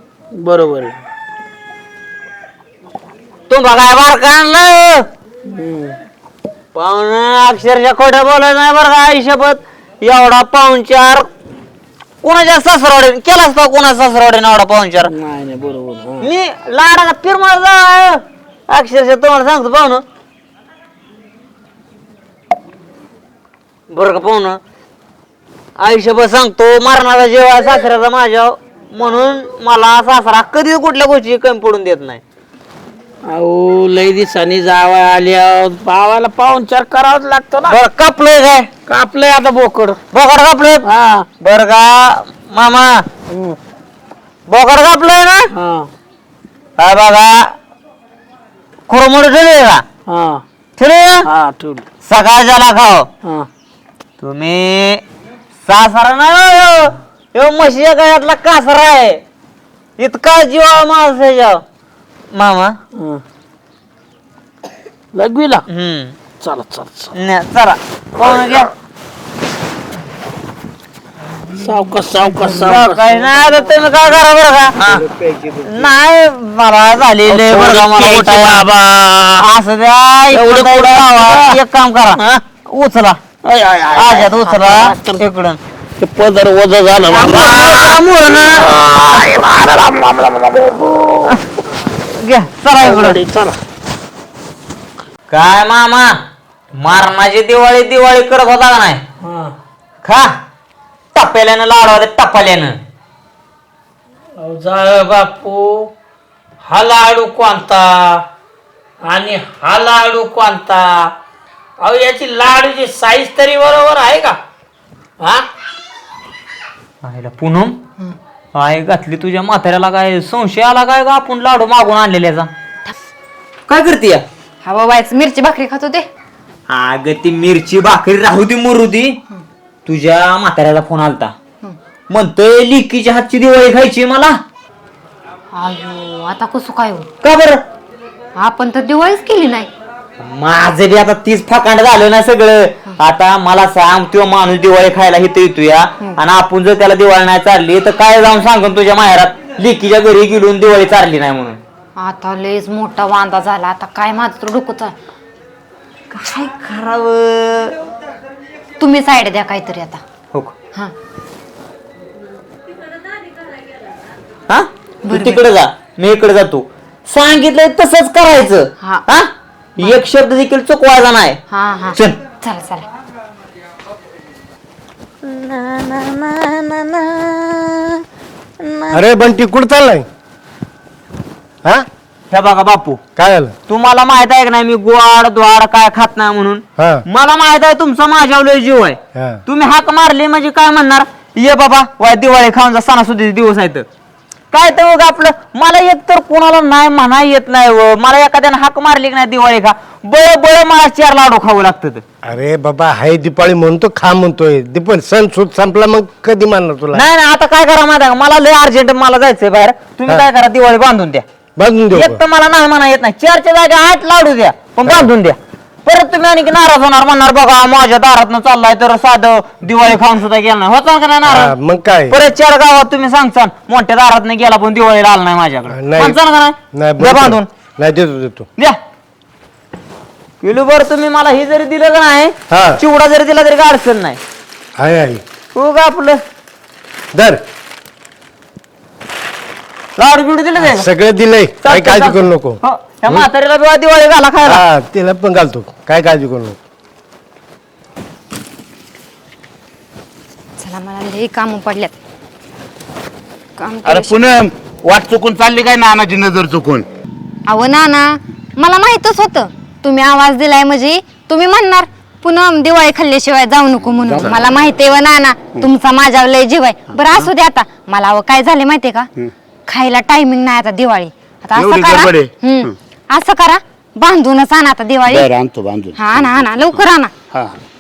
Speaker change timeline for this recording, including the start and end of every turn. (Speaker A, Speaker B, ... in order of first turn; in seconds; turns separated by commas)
Speaker A: 0.3-0.9, Speaker B: 3.5-5.1, Speaker A: 5.5-6.0, Speaker B: 6.8-11.3, Speaker B: 12.2-15.1, Speaker A: 15.1-16.3, Speaker B: 16.2-20.0, Speaker B: 23.9-24.6, Speaker B: 25.8-32.2, Speaker A: 33.3-37.8, Speaker B: 37.6-38.7, Speaker A: 38.9-40.0, Speaker B: 40.1-40.8, Speaker A: 40.9-41.3, Speaker B: 41.4-43.0, Speaker A: 43.3-43.6, Speaker B: 44.5-45.5, Speaker A: 45.5-45.9, Speaker B: 46.8-47.5, Speaker B: 48.9-49.8, Speaker A: 50.1-50.4, Speaker B: 50.8-51.3, Speaker A: 51.2-51.9, Speaker B: 52.0-53.1, Speaker A: 53.2-53.5, Speaker B: 54.2-55.0, Speaker B: 55.7-59.2, Speaker B: 60.0-61.6, Speaker B: 62.3-62.8, Speaker A: 63.0-63.2, Speaker A: 65.1-65.7, Speaker B: 65.7-66.2, Speaker A: 66.4-67.1, Speaker B: 67.2-68.7, Speaker A: 71.5-73.7, Speaker B: 72.3-75.0, Speaker A: 74.8-75.0, Speaker C: 75.1-75.9, Speaker B: 75.6-78.7, Speaker A: 77.3-79.5, Speaker B: 79.4-83.2, Speaker A: 80.3-81.6, Speaker A: 83.4-85.2, Speaker B: 83.9-85.6, Speaker A: 86.0-91.4, Speaker B: 87.1-88.7, Speaker B: 92.1-93.2, Speaker A: 92.8-93.6, Speaker B: 95.3-96.2, Speaker B: 96.8-99.0, Speaker A: 99.2-99.5, Speaker B: 100.0-100.3, Speaker B: 101.1-102.8, Speaker A: 104.4-105.9, Speaker A: 106.6-108.2, Speaker A: 109.0-111.1, Speaker A: 111.8-114.4, Speaker A: 115.2-115.5, Speaker B: 117.0-117.8, Speaker B: 118.5-122.5, Speaker B: 123.7-124.2, Speaker D: 124.6-126.1, Speaker B: 126.7-129.2, Speaker B: 129.9-131.3, Speaker B: 132.1-134.4, Speaker D: 135.5-137.1, Speaker B: 137.2-137.6, Speaker D: 138.4-139.7, Speaker B: 140.2-151.6, Speaker D: 152.0-154.9, Speaker B: 156.1-157.7, Speaker D: 158.8-160.0, Speaker B: 164.5-171.4, Speaker D: 165.1-165.4, Speaker D: 168.8-169.1, Speaker D: 171.5-172.9, Speaker B: 171.9-172.2, Speaker B: 175.2-178.0, Speaker B: 178.6-179.1, Speaker E: 178.9-180.1, Speaker B: 182.3-183.0, Speaker E: 183.2-183.6, Speaker B: 183.7-193.8, Speaker E: 186.8-187.0, Speaker E: 189.2-189.4, Speaker B: 194.5-202.0, Speaker E: 202.2-207.1, Speaker B: 206.9-211.2, Speaker E: 211.6-212.2, Speaker B: 211.9-221.5, Speaker E: 214.8-215.1, Speaker E: 221.3-222.2, Speaker B: 222.1-227.5, Speaker E: 225.7-226.2, Speaker E: 226.7-228.5, Speaker B: 230.4-234.2, Speaker E: 232.5-232.8, Speaker E: 234.8-235.2, Speaker B: 235.6-236.2, Speaker E: 237.1-237.4, Speaker B: 240.0-240.9, Speaker E: 240.6-243.3, Speaker B: 241.6-244.7, Speaker E: 244.4-246.6, Speaker D: 250.6-252.0, Speaker D: 253.6-254.2, Speaker C: 253.8-256.9, Speaker D: 257.5-269.1, Speaker C: 263.8-264.5, Speaker C: 267.0-267.3, Speaker D: 269.7-275.3, Speaker C: 271.6-272.7, Speaker C: 275.1-277.6, Speaker D: 276.0-277.1